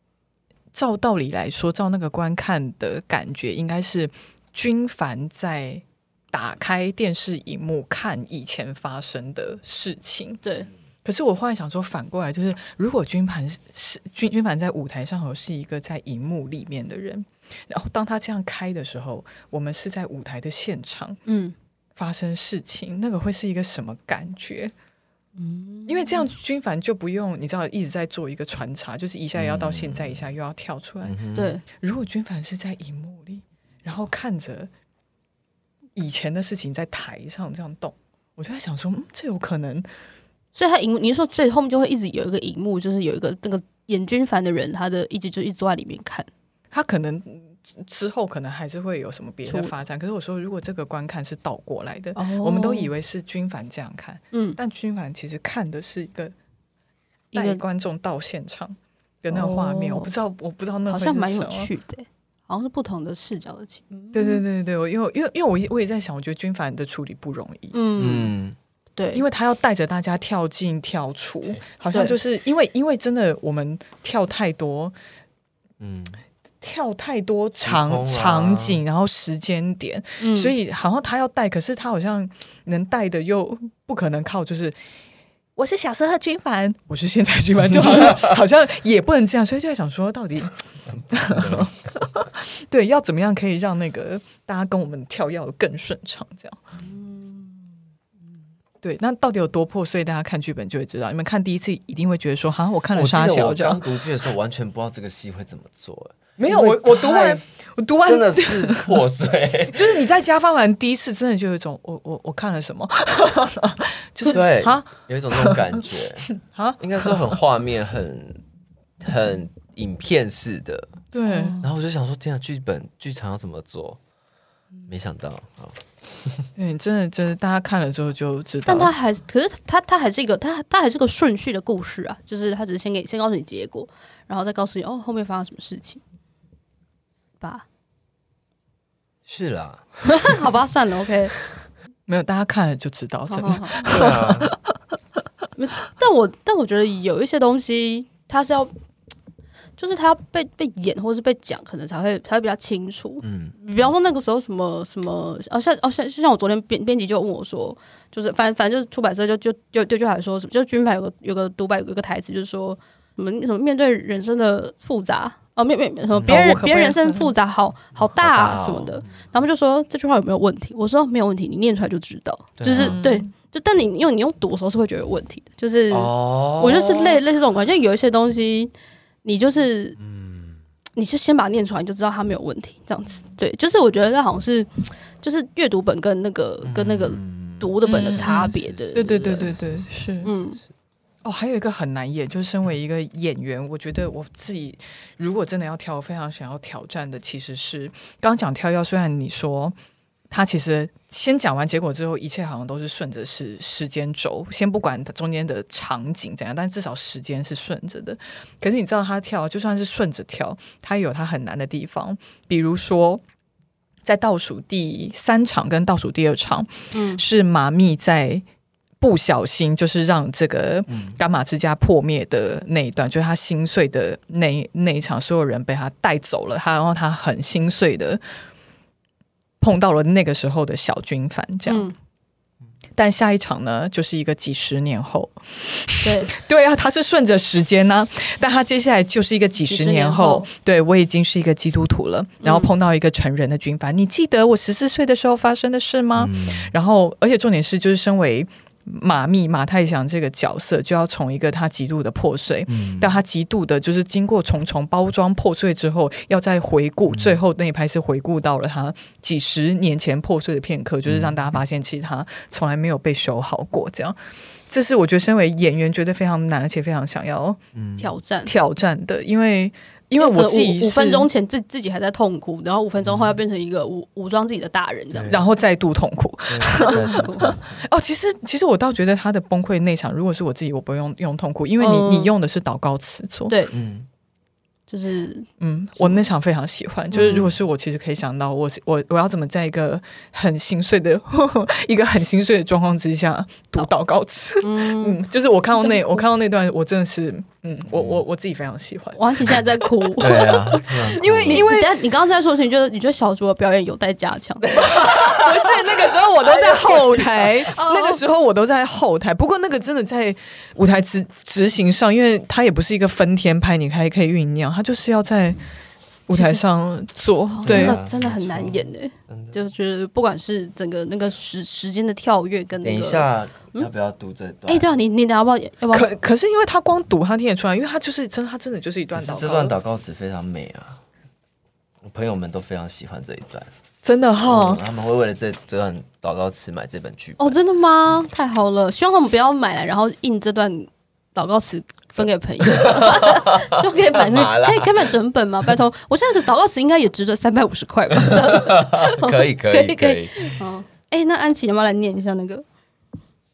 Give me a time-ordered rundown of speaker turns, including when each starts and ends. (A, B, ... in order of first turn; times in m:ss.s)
0:00.7-0:10.4 A
0:10.4-0:10.7 B
0:11.0-0:21.2 A
0:21.3-0:21.5 B
0:22.0-0:24.7 A
0:25.4-0:26.3 B
0:25.9-0:34.7 A
0:29.4-0:30.2 C
0:31.0-0:31.5 C
0:31.3-0:31.6 B
0:35.9-0:39.8 A
0:40.5-0:46.3 B
0:46.7-0:56.3 A
0:49.4-0:49.7 B
0:52.2-0:52.9 B
0:54.3-0:54.6 B
0:57.3-0:57.6 B
0:57.3-1:01.7 A
0:59.3-1:00.1 B
1:00.9-1:04.4 B
1:04.1-1:07.8 A
1:07.7-1:08.3 B
1:08.0-1:08.6 C
1:09.0-1:09.2 B
1:09.1-1:15.0 A
1:15.8-1:16.2 C
1:16.6-1:24.8 A
1:17.6-1:18.8 C
1:20.2-1:20.5 B
1:25.6-1:36.6 A
1:31.2-1:31.7 C
1:36.9-1:37.5 B
1:38.8-1:43.8 A
1:42.9-1:47.4 C
1:46.4-1:49.0 A
1:48.0-1:50.0 C
1:49.7-1:55.8 A
1:54.3-1:58.4 C
1:56.4-1:57.4 A
1:59.0-2:01.0 C
2:01.1-2:01.6 A
2:01.3-2:01.6 B
2:01.6-2:04.0 C
2:04.8-2:06.5 C
2:06.6-2:08.9 A
2:08.6-2:16.0 B
2:17.4-2:17.6 B
2:19.3-2:20.5 C
2:20.1-2:21.3 B
2:22.1-2:24.6 A
2:23.3-2:24.5 B
2:23.8-2:24.5 C
2:25.6-2:28.7 B
2:29.8-2:58.7 B
2:33.2-2:33.5 C
2:46.2-2:46.5 C
2:46.3-2:47.3 A
2:48.1-2:49.2 C
2:52.6-2:53.0 C
2:52.8-2:53.2 A
2:55.9-2:57.2 C
2:59.2-3:00.0 B
3:00.0-3:00.6 C
3:01.0-3:04.7 B
3:05.2-3:09.5 B
3:06.6-3:10.7 C
3:07.8-3:10.3 A
3:10.2-3:10.6 B
3:11.2-3:19.8 A
3:20.3-3:33.2 A
3:34.0-3:38.4 A
3:36.9-3:37.2 B
3:39.0-3:48.2 A
3:40.9-3:41.2 C
3:49.6-3:51.9 A
3:51.6-3:52.0 B
3:53.0-4:27.6 A
3:56.0-3:56.3 B
3:59.6-4:00.5 B
4:02.4-4:02.7 B
4:06.2-4:06.7 C
4:12.7-4:13.2 C
4:17.1-4:17.4 C
4:21.0-4:21.3 C
4:27.7-4:28.1 C
4:28.0-4:28.5 B
4:28.5-4:31.3 A
4:30.2-4:35.4 B
4:33.0-4:33.4 C
4:35.1-4:35.4 C
4:35.3-4:43.6 A
4:36.5-4:37.8 C
4:36.8-4:37.6 B
4:41.8-4:42.3 B
4:43.5-4:43.7 B
4:43.7-4:44.1 C
4:44.9-4:46.2 B
4:45.6-4:59.5 A
4:47.1-4:47.5 B
4:47.1-4:47.5 C
4:54.6-4:55.2 B
4:55.8-4:56.2 B
4:57.9-4:58.2 C
4:59.2-5:05.3 B
5:00.2-5:01.8 C
5:00.2-5:00.5 A
5:01.1-5:01.9 A
5:04.8-5:15.6 A
5:05.0-5:05.5 C
5:07.6-5:08.2 B
5:16.3-5:18.0 A
5:16.3-5:16.6 B
5:17.5-5:23.9 B
5:17.6-5:19.6 C
5:22.8-5:24.9 C
5:24.7-5:26.1 B
5:25.9-5:29.8 A
5:29.1-5:31.0 C
5:32.0-5:33.7 C
5:34.0-5:34.8 A
5:34.4-5:37.6 C
5:37.4-5:52.6 B
5:42.6-5:45.1 C
5:48.2-5:50.6 C